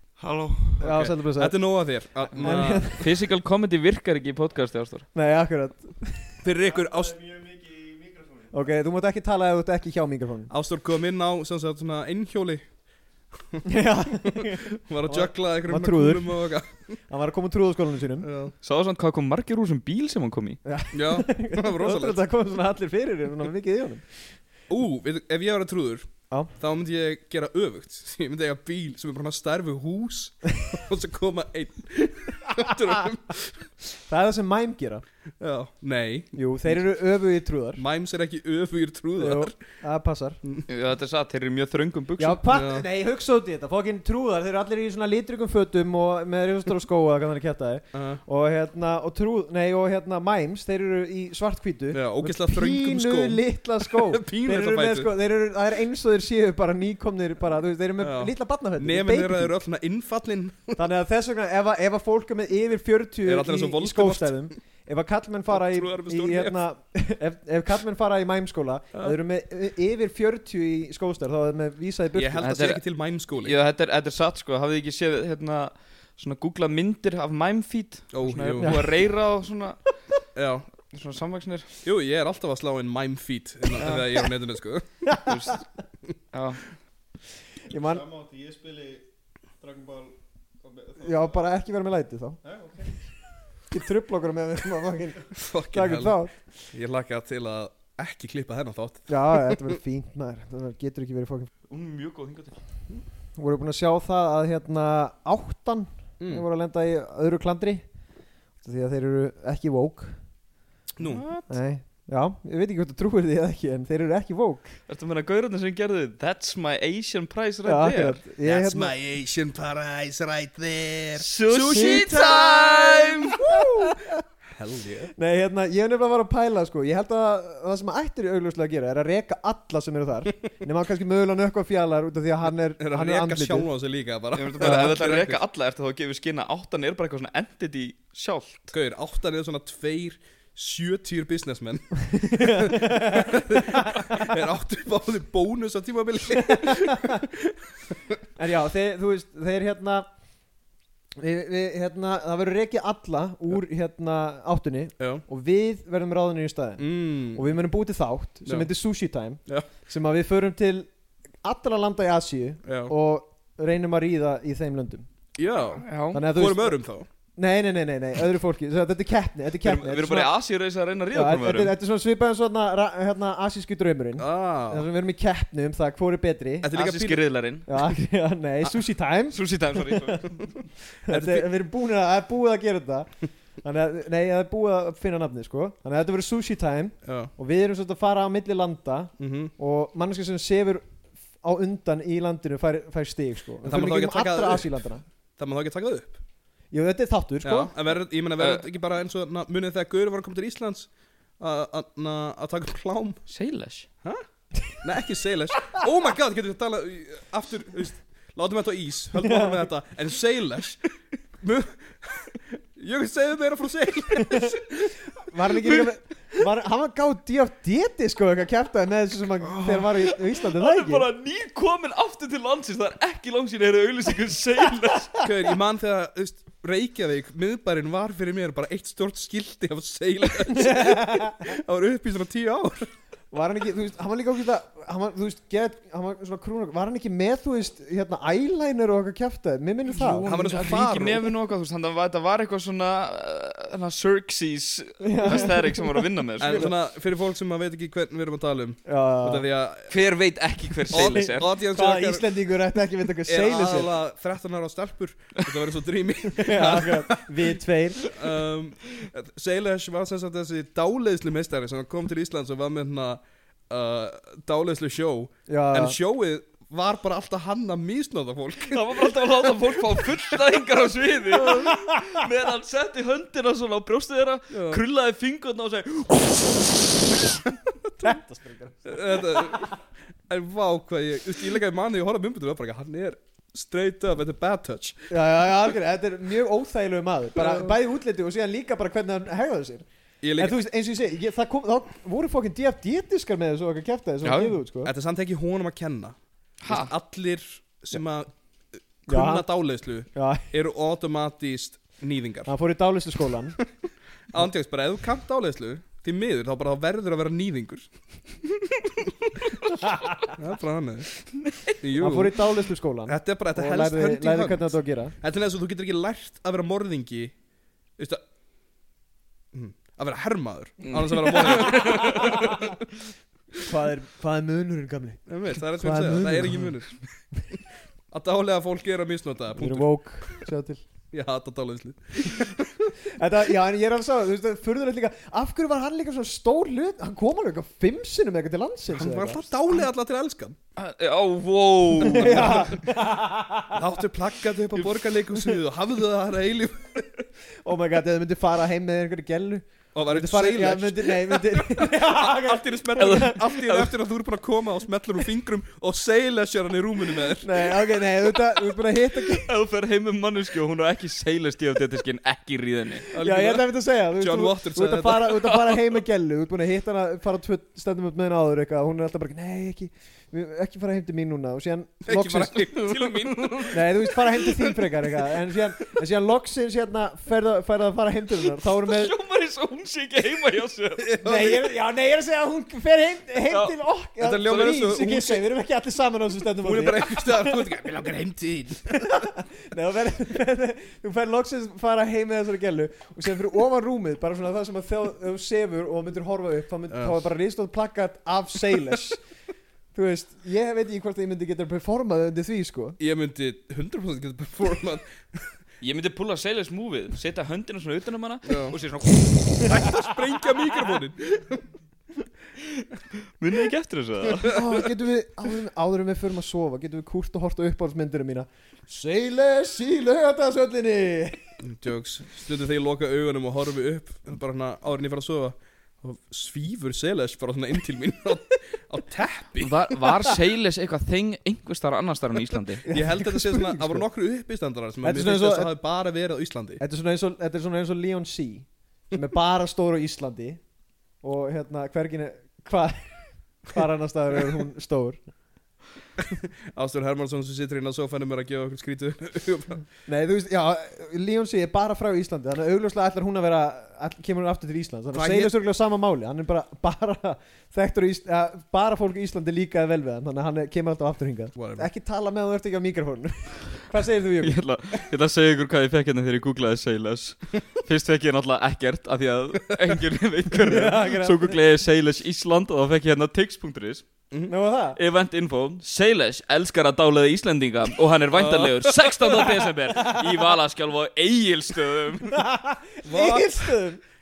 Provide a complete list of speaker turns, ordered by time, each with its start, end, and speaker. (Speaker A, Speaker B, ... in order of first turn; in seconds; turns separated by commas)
Speaker A: 0.8-3.1, Speaker B: 0.8-1.6, Speaker B: 2.4-3.1, Speaker C: 2.4-5.1, Speaker B: 5.1-6.4, Speaker A: 6.4-7.2, Speaker D: 6.8-8.5, Speaker B: 8.5-10.5, Speaker A: 10.5-12.7, Speaker A: 13.4-13.6, Speaker B: 13.7-16.5, Speaker A: 14.2-17.0, Speaker B: 17.1-18.3, Speaker A: 18.2-18.5, Speaker C: 18.6-20.6, Speaker B: 20.6-24.1, Speaker A: 20.9-22.2, Speaker A: 24.7-33.7, Speaker B: 34.1-35.0, Speaker A: 35.4-36.8, Speaker B: 36.3-37.8, Speaker A: 37.8-39.6, Speaker B: 39.2-40.4, Speaker C: 40.7-42.4, Speaker B: 42.2-59.5, Speaker A: 42.5-42.9, Speaker A: 47.9-48.2, Speaker A: 51.9-55.1, Speaker A: 58.0-60.8, Speaker B: 60.8-72.5, Speaker A: 63.2-64.5, Speaker A: 65.5-66.6, Speaker A: 72.1-73.6, Speaker C: 72.4-72.8, Speaker C: 73.3-79.8, Speaker A: 78.1-78.8, Speaker B: 78.6-78.9, Speaker A: 80.4-80.7, Speaker C: 80.9-81.8, Speaker A: 81.8-84.9, Speaker B: 85.0-85.5, Speaker C: 85.2-85.7, Speaker C: 86.3-86.6, Speaker B: 87.7-88.0, Speaker D: 87.8-89.0, Speaker D: 89.6-91.3, Speaker B: 91.0-92.4, Speaker D: 92.5-92.9, Speaker B: 93.7-96.4, Speaker A: 95.3-96.2, Speaker A: 96.7-99.7, Speaker B: 99.1-101.5, Speaker C: 101.7-102.6, Speaker B: 103.4-107.8, Speaker A: 106.2-106.5, Speaker B: 108.6-110.2, Speaker A: 111.0-111.3, Speaker C: 111.0-111.5, Speaker B: 111.5-114.8, Speaker C: 114.9-118.2, Speaker B: 117.7-118.9, Speaker A: 118.4-123.4, Speaker C: 121.2-123.4, Speaker B: 123.4-124.2, Speaker A: 124.5-125.1, Speaker B: 125.2-133.7, Speaker A: 132.8-135.4, Speaker C: 134.3-138.7, Speaker A: 138.7-148.0, Speaker B: 142.2-144.1, Speaker B: 146.4-147.3, Speaker B: 148.4-150.1, Speaker B: 151.2-160.9, Speaker A: 155.0-155.2, Speaker A: 156.8-157.5, Speaker B: 161.4-165.1, Speaker A: 162.7-162.9, Speaker A: 165.4-167.1, Speaker C: 165.8-166.2, Speaker B: 166.1-166.8, Speaker B: 167.3-170.3, Speaker C: 169.6-171.7, Speaker B: 171.1-176.7, Speaker A: 174.2-174.9, Speaker A: 176.6-177.2, Speaker C: 176.7-177.7, Speaker B: 177.7-180.2, Speaker C: 179.3-180.6, Speaker B: 181.0-183.1, Speaker A: 181.1-181.5, Speaker B: 183.6-190.8, Speaker A: 187.0-187.3, Speaker A: 189.2-189.5, Speaker B: 191.4-195.0, Speaker A: 193.6-194.7, Speaker A: 195.4-196.2, Speaker B: 196.7-197.7, Speaker A: 197.4-203.2, Speaker C: 203.3-203.9, Speaker A: 204.8-210.8, Speaker B: 209.2-209.7, Speaker A: 211.4-215.0, Speaker B: 214.2-214.5, Speaker B: 215.2-221.1, Speaker C: 219.5-225.2, Speaker A: 225.2-232.9, Speaker B: 230.5-231.6, Speaker B: 233.3-240.3, Speaker C: 239.9-246.7, Speaker A: 240.2-241.3, Speaker B: 245.0-246.7, Speaker A: 246.4-249.9, Speaker B: 248.9-249.4, Speaker C: 249.9-251.5, Speaker A: 250.9-252.3, Speaker B: 250.9-253.9, Speaker A: 253.3-257.4, Speaker B: 256.3-258.0, Speaker A: 258.1-269.1, Speaker B: 265.5-266.0, Speaker C: 268.7-277.4, Speaker B: 271.4-272.2, Speaker A: 274.5-274.8, Speaker B: 278.0-279.7, Speaker A: 278.9-279.8, Speaker A: 280.3-285.0, Speaker B: 285.1-289.9, Speaker A: 287.4-287.8, Speaker A: 290.2-290.6, Speaker B: 290.4-294.9, Speaker C: 294.2-294.6, Speaker A: 294.8-298.3, Speaker C: 296.6-296.9, Speaker A: 299.1-302.5, Speaker B: 299.1-300.5, Speaker B: 302.5-303.6, Speaker A: 304.3-307.9, Speaker A: 310.4-311.1, Speaker A: 311.7-312.5, Speaker B: 312.0-315.1, Speaker A: 313.1-317.4, Speaker A: 319.5-322.8, Speaker C: 320.8-322.4, Speaker B: 322.2-322.6, Speaker B: 323.6-326.7, Speaker A: 325.3-327.0, Speaker A: 328.1-329.9, Speaker B: 329.6-330.8, Speaker A: 331.1-332.9, Speaker B: 333.1-339.5, Speaker A: 338.9-340.6, Speaker C: 340.8-342.7, Speaker A: 342.0-342.8, Speaker B: 342.0-343.8, Speaker A: 343.7-347.3, Speaker B: 347.6-353.4, Speaker A: 349.9-357.7, Speaker C: 353.0-353.9, Speaker B: 357.4-359.5, Speaker C: 359.3-363.1, Speaker A: 363.1-365.5, Speaker B: 363.2-372.6, Speaker A: 372.1-373.9, Speaker C: 372.7-373.7, Speaker B: 373.7-379.2, Speaker C: 378.7-381.1, Speaker A: 381.0-381.8, Speaker B: 381.2-387.1, Speaker A: 384.2-385.4, Speaker A: 386.6-389.2, Speaker B: 388.9-399.2, Speaker A: 396.9-397.2, Speaker B: 399.9-403.0, Speaker A: 403.0-405.5, Speaker C: 405.8-410.0, Speaker A: 408.5-408.8, Speaker A: 409.7-411.7, Speaker C: 413.4-414.6, Speaker B: 414.4-421.4, Speaker A: 421.6-430.4, Speaker C: 429.6-433.0, Speaker A: 432.6-436.8, Speaker B: 432.9-434.0, Speaker B: 435.0-435.7, Speaker B: 436.8-440.6, Speaker B: 441.2-445.2, Speaker A: 446.2-449.8, Speaker B: 450.1-464.6, Speaker A: 455.1-455.5, Speaker A: 461.6-461.9, Speaker C: 464.4-474.1, Speaker B: 470.7-471.6, Speaker B: 474.5-475.0, Speaker C: 475.0-482.5, Speaker A: 478.3-479.7, Speaker B: 482.5-484.0, Speaker A: 483.1-483.7